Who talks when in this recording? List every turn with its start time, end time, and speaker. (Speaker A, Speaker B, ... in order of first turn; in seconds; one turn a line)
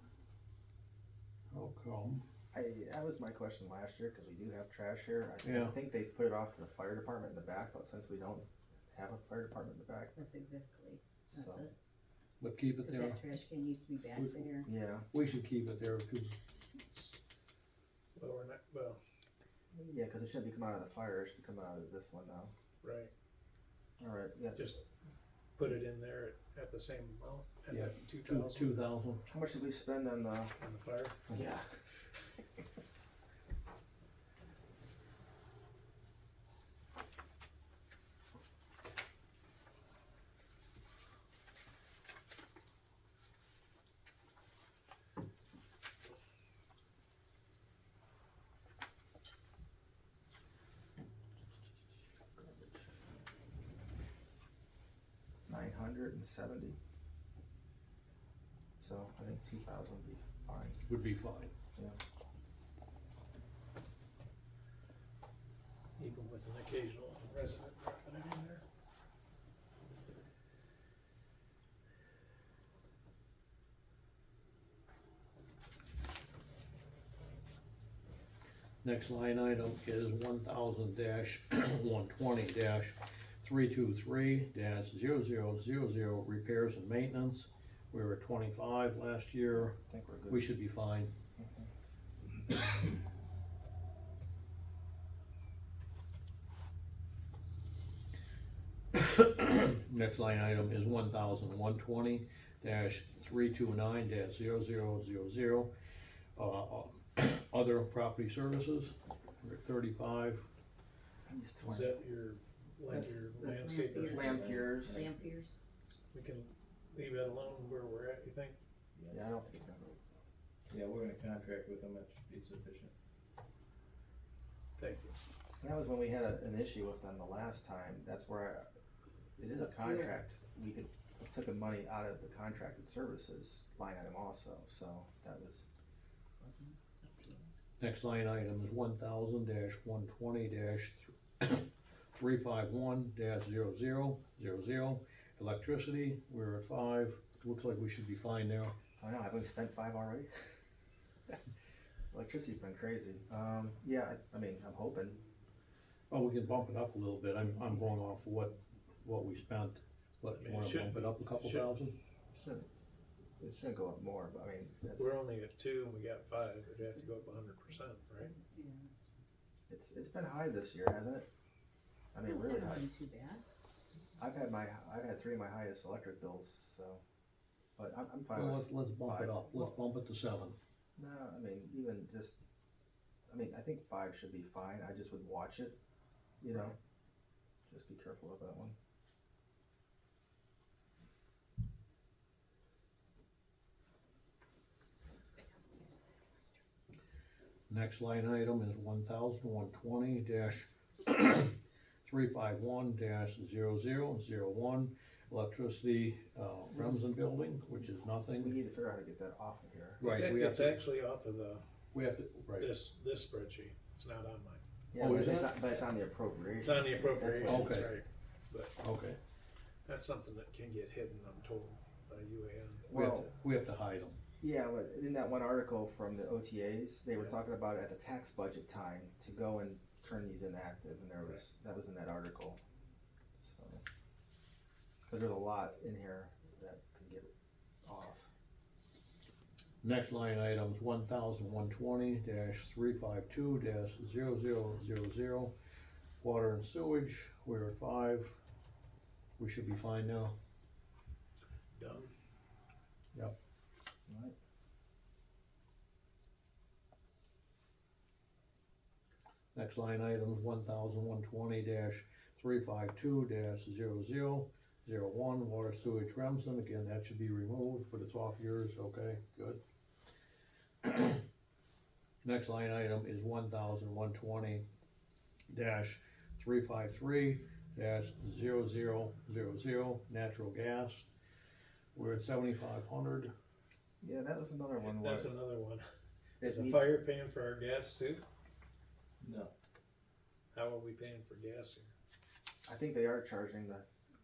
Speaker A: 1.5-2.2
Speaker B: 2.5-10.2
Speaker A: 5.4-5.7
Speaker C: 10.2-11.7
Speaker B: 11.3-11.7
Speaker A: 12.4-13.2
Speaker C: 12.8-14.7
Speaker A: 14.2-14.4
Speaker B: 14.7-15.1
Speaker A: 15.1-17.0
Speaker D: 18.1-19.0
Speaker B: 19.7-22.5
Speaker D: 22.8-23.1
Speaker B: 24.0-24.7
Speaker D: 24.6-24.8
Speaker D: 25.6-28.9
Speaker A: 27.7-29.2
Speaker B: 29.3-30.6
Speaker D: 30.6-31.2
Speaker B: 31.3-31.6
Speaker B: 52.4-52.8
Speaker B: 55.5-56.8
Speaker B: 58.8-60.8
Speaker A: 60.9-61.5
Speaker D: 66.0-68.6
Speaker A: 78.8-89.8
Speaker B: 89.9-90.4
Speaker A: 90.3-91.1
Speaker B: 91.4-91.7
Speaker A: 98.9-105.7
Speaker A: 106.4-110.5
Speaker B: 111.3-112.0
Speaker D: 111.7-114.4
Speaker B: 112.9-115.1
Speaker C: 113.4-115.5
Speaker E: 114.3-115.2
Speaker D: 116.0-118.6
Speaker E: 119.0-119.2
Speaker B: 119.1-120.0
Speaker E: 120.7-122.9
Speaker D: 124.8-125.2
Speaker B: 125.6-128.7
Speaker B: 129.4-135.6
Speaker C: 129.6-130.2
Speaker C: 136.4-137.5
Speaker A: 137.8-148.8
Speaker B: 149.0-150.3
Speaker B: 152.1-155.2
Speaker A: 156.1-162.0
Speaker D: 160.4-161.7
Speaker B: 162.3-162.7
Speaker B: 163.4-165.1
Speaker D: 165.0-168.3
Speaker C: 168.3-169.0
Speaker B: 169.7-171.3
Speaker B: 172.1-172.9
Speaker C: 172.2-173.4
Speaker B: 174.2-177.0
Speaker B: 177.8-179.7
Speaker A: 178.3-180.6
Speaker B: 181.0-182.3
Speaker B: 183.3-185.8
Speaker B: 186.4-186.8
Speaker B: 187.7-188.8
Speaker C: 195.5-196.4
Speaker A: 197.7-208.6
Speaker B: 208.4-210.0
Speaker A: 210.0-210.8
Speaker D: 210.0-211.6
Speaker A: 211.9-212.7
Speaker D: 212.6-214.6
Speaker B: 214.9-217.9
Speaker A: 215.0-215.5
Speaker D: 216.6-218.7
Speaker A: 217.5-217.9
Speaker A: 218.8-219.2
Speaker D: 219.9-222.9
Speaker B: 222.9-223.3
Speaker A: 222.9-224.2
Speaker B: 224.4-232.6
Speaker B: 233.4-233.8
Speaker B: 235.1-237.3
Speaker B: 237.8-238.3
Speaker A: 239.8-245.5
Speaker A: 246.2-248.4
Speaker A: 249.4-250.3
Speaker D: 251.8-252.1
Speaker B: 254.1-254.4
Speaker A: 259.6-269.6
Speaker A: 270.8-271.2
Speaker A: 272.2-274.6
Speaker A: 275.5-281.1
Speaker A: 281.9-283.3
Speaker B: 284.0-285.3
Speaker D: 284.8-285.9
Speaker B: 286.4-286.9
Speaker D: 286.4-288.2
Speaker E: 289.2-289.5
Speaker D: 290.5-291.9
Speaker B: 292.7-293.9